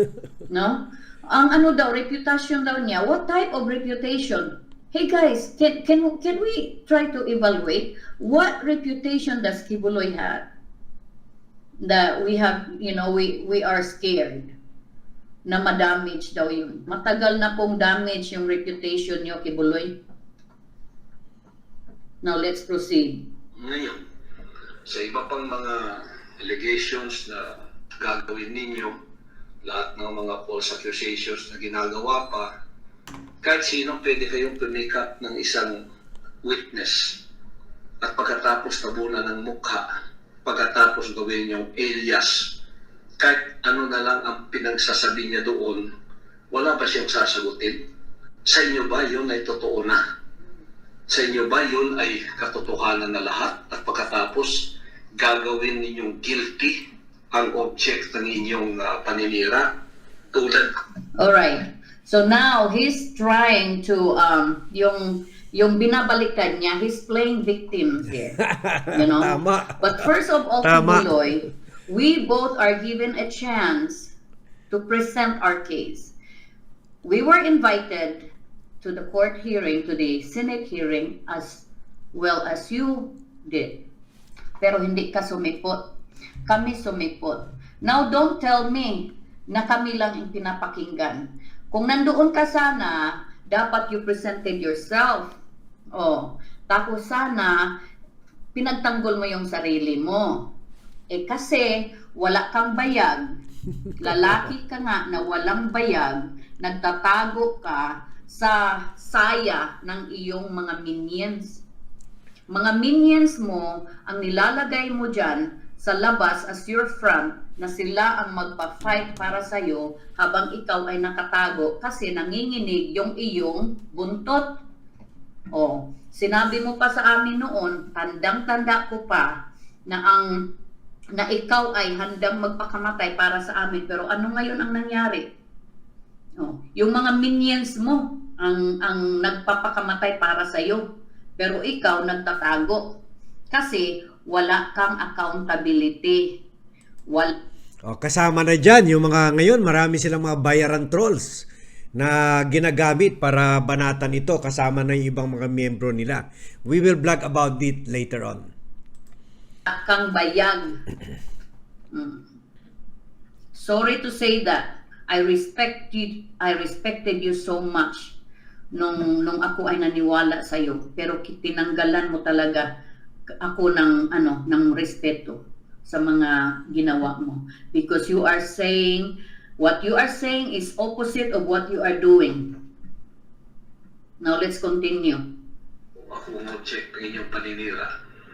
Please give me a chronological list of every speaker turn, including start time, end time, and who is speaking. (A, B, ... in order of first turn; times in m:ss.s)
0:00.5-0:10.4 A
0:11.8-0:14.5 A
0:15.4-0:20.0 A
0:22.2-0:23.3 A
0:23.6-0:24.0 B
0:24.8-0:27.4 B
0:28.0-0:29.0 B
0:29.6-0:32.5 B
0:33.4-0:35.8 B
0:36.4-0:37.2 B
0:38.0-0:39.9 B
0:40.4-0:42.6 B
0:43.2-0:45.9 B
0:46.5-0:47.8 B
0:48.4-0:50.0 B
0:51.1-0:56.8 B
0:57.3-0:59.7 B
1:00.3-1:00.7 B
1:01.2-1:08.4 A
1:08.4-1:09.9 C
1:08.9-1:14.1 A
1:10.6-1:11.2 C
1:14.7-1:16.1 A
1:17.0-1:18.3 A
1:18.8-1:23.8 A
1:24.6-1:25.9 A
1:26.4-1:35.4 A
1:35.9-1:37.7 A
1:38.5-1:40.5 A
1:41.1-1:43.3 A
1:44.0-1:51.6 A
1:52.5-2:04.6 A
2:05.5-2:09.3 A
2:09.9-2:10.3 A
2:11.1-2:15.3 A
2:16.4-2:20.8 A
2:21.4-2:23.0 A
2:23.5-2:26.4 A
2:27.1-2:27.3 A
2:27.8-2:38.5 C
2:39.7-2:40.8 A
2:41.9-2:42.3 A
2:43.5-2:48.2 A
2:48.7-2:52.7 A
2:53.4-3:02.5 A
3:04.2-3:05.2 A
3:06.1-3:07.9 B